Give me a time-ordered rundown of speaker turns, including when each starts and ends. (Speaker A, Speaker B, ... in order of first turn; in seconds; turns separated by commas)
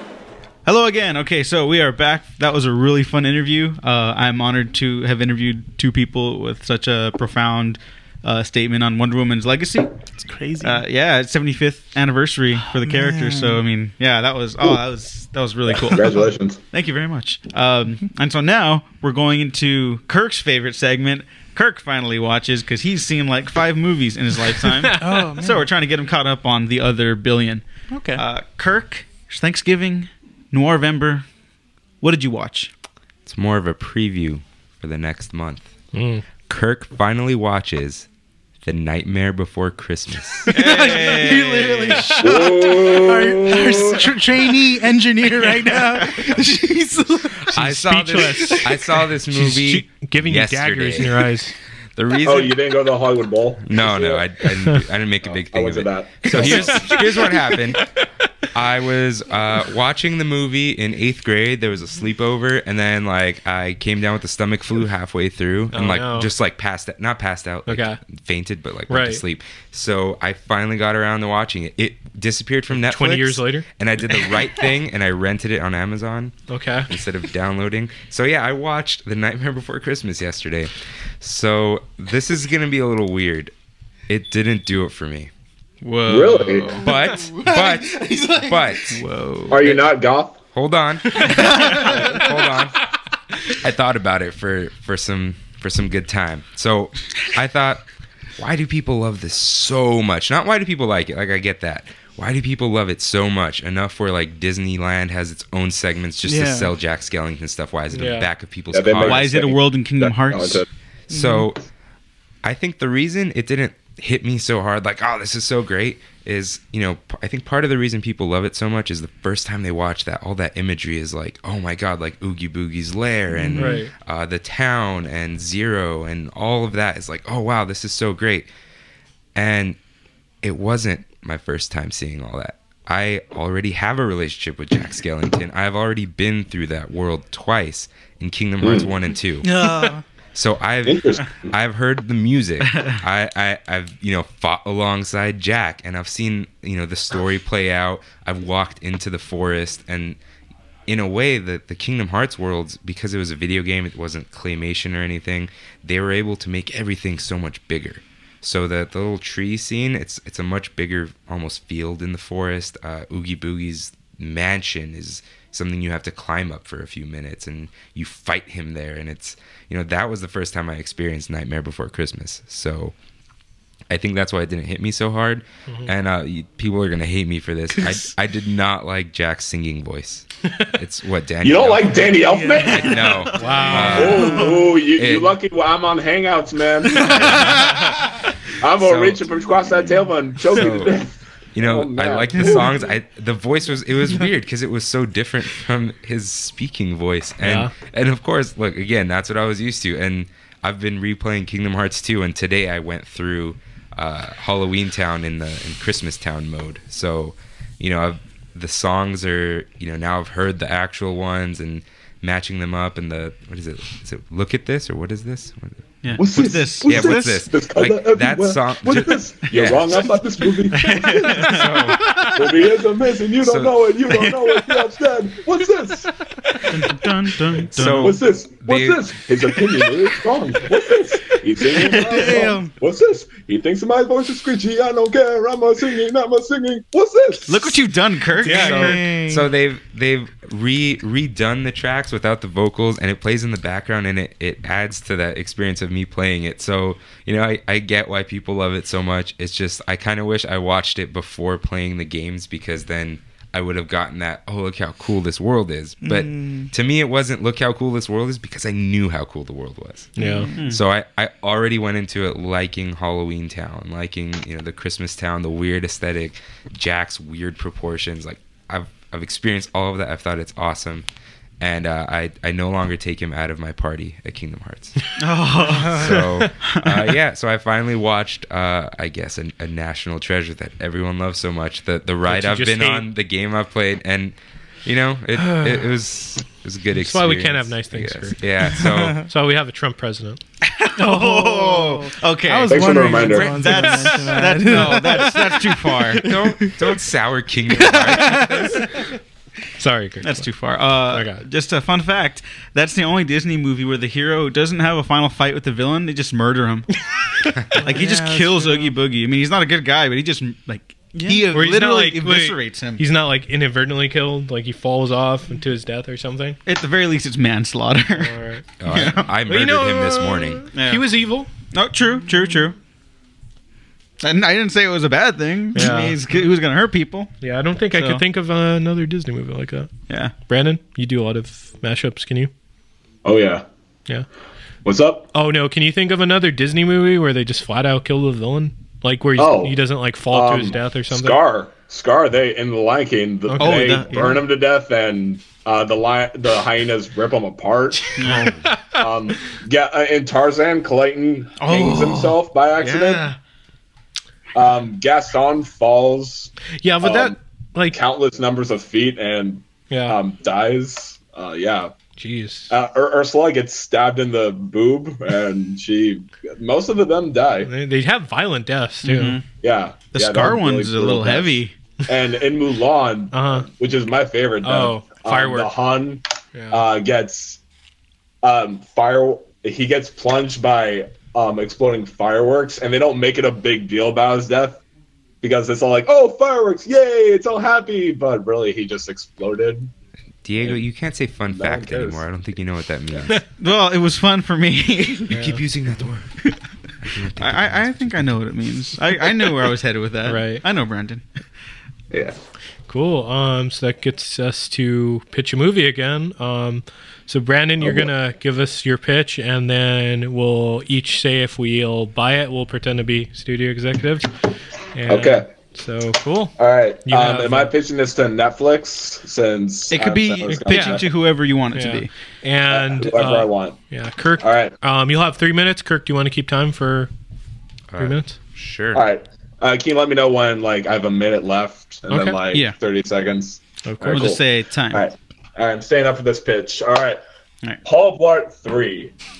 Speaker A: 0.6-9.9, Speaker B: 10.2-10.8, Speaker A: 10.6-16.1, Speaker B: 12.7-13.6, Speaker C: 15.7-16.6, Speaker A: 16.7-27.6, Speaker B: 25.0-25.7, Speaker B: 27.9-28.2, Speaker A: 28.1-31.2, Speaker A: 32.0-32.7, Speaker D: 33.2-35.7, Speaker E: 35.9-36.2, Speaker D: 36.5-38.1, Speaker D: 38.6-40.6, Speaker B: 40.5-48.8, Speaker A: 40.5-42.0, Speaker E: 41.9-42.2, Speaker C: 42.2-44.1, Speaker D: 47.5-51.3, Speaker E: 47.6-48.8, Speaker E: 49.3-51.5, Speaker D: 52.0-52.6, Speaker C: 52.2-54.2, Speaker D: 53.6-57.8, Speaker C: 55.3-57.1, Speaker E: 56.3-57.4, Speaker D: 58.5-76.3, Speaker E: 65.7-66.3, Speaker E: 67.7-68.0, Speaker E: 68.9-69.2, Speaker E: 72.7-73.6, Speaker E: 76.5-76.9, Speaker D: 76.9-83.5, Speaker D: 84.1-85.3, Speaker A: 85.8-86.8, Speaker C: 86.0-86.7, Speaker D: 86.8-89.0, Speaker B: 87.3-88.6, Speaker A: 88.9-89.8, Speaker C: 89.5-90.4, Speaker D: 90.5-92.8, Speaker D: 93.5-97.8, Speaker D: 98.4-109.3, Speaker B: 106.2-106.7, Speaker E: 107.9-108.3, Speaker C: 108.7-110.7, Speaker A: 109.0-110.6, Speaker D: 111.1-111.6, Speaker B: 111.1-111.5, Speaker D: 112.4-128.5, Speaker B: 123.4-123.8, Speaker E: 123.5-123.9, Speaker D: 129.3-129.8, Speaker D: 130.4-139.5, Speaker C: 138.6-138.9, Speaker B: 139.4-140.0, Speaker D: 140.3-150.2, Speaker C: 140.8-141.5, Speaker A: 142.7-143.0, Speaker D: 150.9-172.9, Speaker D: 173.9-185.4, Speaker C: 181.4-183.2, Speaker B: 182.3-184.8, Speaker E: 183.3-184.3, Speaker C: 183.7-187.5, Speaker D: 187.1-187.6, Speaker E: 187.6-188.0, Speaker C: 188.6-192.7, Speaker D: 188.8-189.3, Speaker D: 190.5-190.9, Speaker D: 191.5-215.8, Speaker E: 197.4-197.7, Speaker A: 216.0-217.5, Speaker C: 216.2-221.3, Speaker D: 216.8-220.1, Speaker A: 220.7-221.7, Speaker D: 221.3-222.1, Speaker E: 221.9-222.3, Speaker C: 222.3-226.1, Speaker D: 223.4-223.8, Speaker A: 224.1-224.8, Speaker A: 226.7-228.2, Speaker D: 227.7-229.2, Speaker C: 227.9-237.8, Speaker A: 231.7-232.7, Speaker B: 232.1-232.6, Speaker A: 237.5-239.0, Speaker B: 238.4-239.5, Speaker C: 238.7-239.0, Speaker D: 239.2-260.1, Speaker B: 256.0-256.7, Speaker E: 260.1-260.5, Speaker B: 260.2-260.5, Speaker A: 260.5-260.8, Speaker D: 260.7-271.1, Speaker D: 271.6-275.0, Speaker A: 275.2-276.1, Speaker D: 275.9-289.2, Speaker E: 276.1-276.4, Speaker A: 276.7-277.1, Speaker E: 282.3-283.0, Speaker E: 285.4-285.9, Speaker E: 287.0-288.4, Speaker B: 288.8-289.2, Speaker E: 289.1-290.4, Speaker A: 290.7-296.3, Speaker B: 291.0-296.9, Speaker C: 292.7-293.9, Speaker D: 296.2-298.8, Speaker B: 297.8-298.6, Speaker E: 299.8-300.5, Speaker A: 300.2-306.9, Speaker E: 301.1-301.4, Speaker B: 307.8-308.9, Speaker A: 307.8-313.0, Speaker E: 311.5-316.6, Speaker A: 316.6-318.4, Speaker E: 318.1-318.6, Speaker D: 318.8-320.7, Speaker A: 318.9-319.3, Speaker E: 319.5-321.5, Speaker A: 320.7-321.0, Speaker A: 321.7-322.8, Speaker A: 324.2-327.3, Speaker E: 325.7-326.2, Speaker E: 327.4-329.9, Speaker A: 327.9-328.2, Speaker E: 330.5-332.5, Speaker C: 333.2-333.6, Speaker C: 334.8-335.3, Speaker E: 335.3-341.4, Speaker C: 339.4-339.8, Speaker C: 340.3-348.2, Speaker E: 343.5-343.9, Speaker A: 343.6-344.4, Speaker A: 348.2-348.5, Speaker E: 348.3-349.0, Speaker C: 348.9-353.2, Speaker A: 351.6-353.4, Speaker C: 354.5-361.9, Speaker E: 356.8-358.0, Speaker E: 359.9-360.2, Speaker E: 362.2-362.7, Speaker C: 362.7-367.7, Speaker E: 367.6-369.4, Speaker A: 369.0-369.4, Speaker C: 369.6-377.6, Speaker A: 370.1-371.7, Speaker E: 373.3-373.7, Speaker E: 374.6-375.7, Speaker E: 376.5-376.8, Speaker C: 378.4-384.8, Speaker C: 385.4-389.9, Speaker D: 390.4-393.4, Speaker C: 391.5-392.2, Speaker A: 393.6-395.4, Speaker D: 395.3-396.5, Speaker E: 395.3-395.6, Speaker D: 397.0-398.4, Speaker A: 397.4-401.2, Speaker E: 400.2-400.6, Speaker E: 402.9-414.3, Speaker C: 407.8-408.1, Speaker E: 414.9-417.7, Speaker C: 415.1-415.5, Speaker C: 416.6-421.1, Speaker A: 419.9-422.1, Speaker E: 420.5-421.0, Speaker E: 421.7-427.1, Speaker C: 422.7-423.8, Speaker C: 424.4-424.7, Speaker D: 427.9-429.0, Speaker E: 428.0-428.4, Speaker C: 428.9-437.2, Speaker E: 432.1-432.4, Speaker E: 433.8-434.3, Speaker A: 434.1-435.0, Speaker C: 437.8-439.1